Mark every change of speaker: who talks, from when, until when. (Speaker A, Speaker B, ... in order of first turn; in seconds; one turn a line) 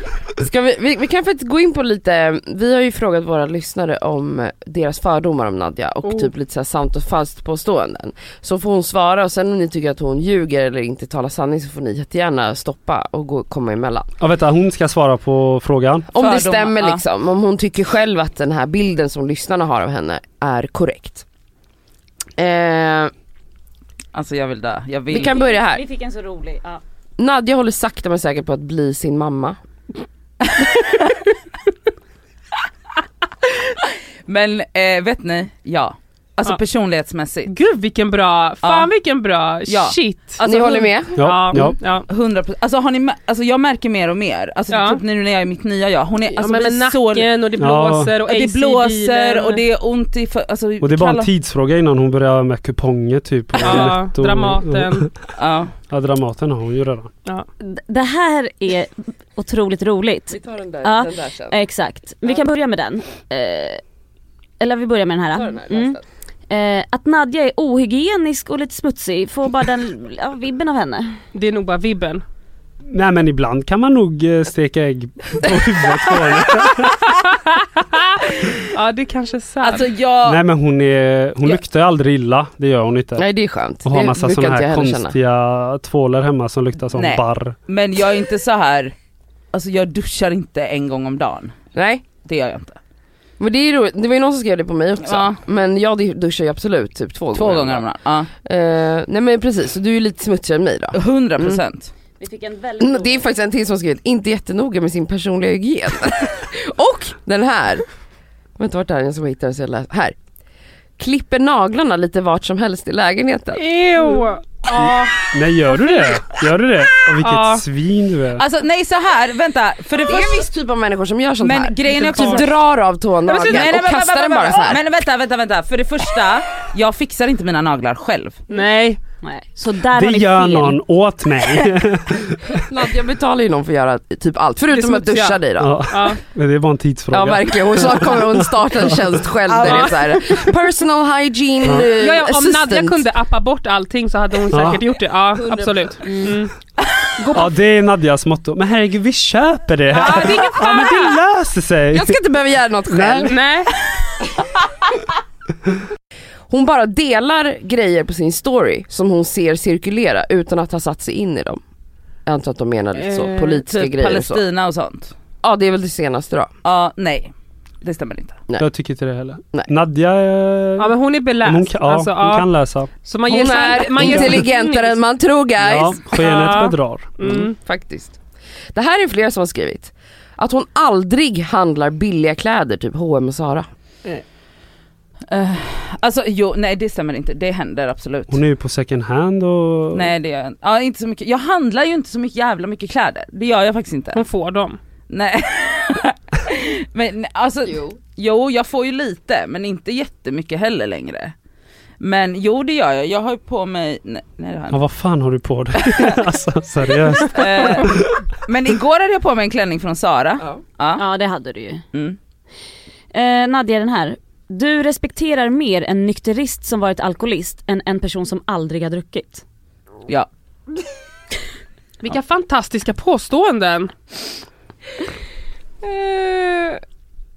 Speaker A: 0.4-14.1
Speaker B: 14.2-16.1
Speaker A: 16.1-21.2
Speaker C: 16.2-17.0
Speaker A: 22.4-23.1
Speaker C: 24.1-25.4
Speaker A: 25.1-25.8
Speaker D: 25.1-26.8
Speaker A: 27.2-29.6
Speaker C: 34.2-37.5
Speaker E: 37.5-42.1
Speaker C: 38.6-38.9
Speaker C: 39.7-40.7
Speaker A: 40.4-41.3
Speaker B: 41.2-41.8
Speaker C: 42.1-47.3
Speaker E: 44.7-45.0
Speaker E: 46.4-49.6
Speaker B: 47.6-48.1
Speaker C: 48.2-51.3
Speaker B: 50.8-55.1
Speaker E: 53.6-55.1
Speaker C: 55.4-55.7
Speaker B: 55.9-57.1
Speaker D: 57.6-63.8
Speaker A: 60.3-61.6
Speaker D: 64.6-66.0
Speaker A: 65.3-66.0
Speaker D: 66.5-71.2
Speaker E: 71.3-72.2
Speaker B: 72.9-77.1
Speaker E: 77.8-79.9
Speaker C: 79.6-80.4
Speaker B: 80.2-83.2
Speaker A: 83.2-85.1
Speaker B: 83.8-87.6
Speaker C: 86.9-88.9
Speaker C: 89.5-91.5
Speaker A: 91.7-92.1
Speaker C: 92.2-92.8
Speaker A: 93.4-97.9
Speaker C: 95.0-95.4
Speaker C: 97.3-98.3
Speaker A: 98.4-101.6
Speaker C: 100.9-101.9
Speaker D: 102.2-103.3
Speaker A: 102.8-107.9
Speaker A: 108.6-110.1
Speaker A: 111.0-113.6
Speaker E: 113.5-116.2
Speaker B: 114.8-118.4
Speaker E: 117.2-117.6
Speaker C: 118.4-120.5
Speaker A: 120.0-124.8
Speaker C: 121.4-122.6
Speaker E: 121.9-122.4
Speaker E: 123.2-123.7
Speaker C: 123.4-128.4
Speaker E: 128.5-129.0
Speaker D: 129.2-130.8
Speaker B: 129.9-132.6
Speaker A: 132.7-135.8
Speaker E: 134.7-136.2
Speaker B: 135.6-139.1
Speaker A: 137.1-143.0
Speaker C: 139.4-140.2
Speaker E: 139.6-139.9
Speaker E: 141.9-146.5
Speaker B: 144.5-144.8
Speaker A: 145.3-145.9
Speaker D: 146.1-146.3
Speaker E: 147.2-147.5
Speaker B: 147.3-152.2
Speaker E: 149.9-151.2
Speaker A: 151.9-153.4
Speaker B: 152.9-153.4
Speaker E: 153.2-153.7
Speaker A: 156.5-161.6
Speaker A: 162.2-164.4
Speaker E: 162.9-163.6
Speaker C: 163.6-165.1
Speaker A: 165.4-166.5
Speaker C: 166.6-168.4
Speaker B: 168.6-172.9
Speaker E: 170.8-172.5
Speaker E: 173.0-175.0
Speaker A: 173.3-176.0
Speaker B: 174.0-174.4
Speaker B: 175.6-177.1
Speaker E: 176.2-177.6
Speaker A: 177.2-178.2
Speaker A: 178.7-183.7
Speaker C: 185.3-188.4
Speaker B: 188.3-190.1
Speaker C: 189.9-194.2
Speaker E: 194.1-194.8
Speaker C: 195.1-201.3
Speaker A: 197.7-198.0
Speaker C: 202.0-204.8
Speaker B: 204.7-208.1
Speaker C: 205.9-206.1
Speaker C: 207.2-211.0
Speaker D: 210.9-211.8
Speaker D: 213.1-219.4
Speaker E: 222.0-223.9
Speaker A: 225.8-226.8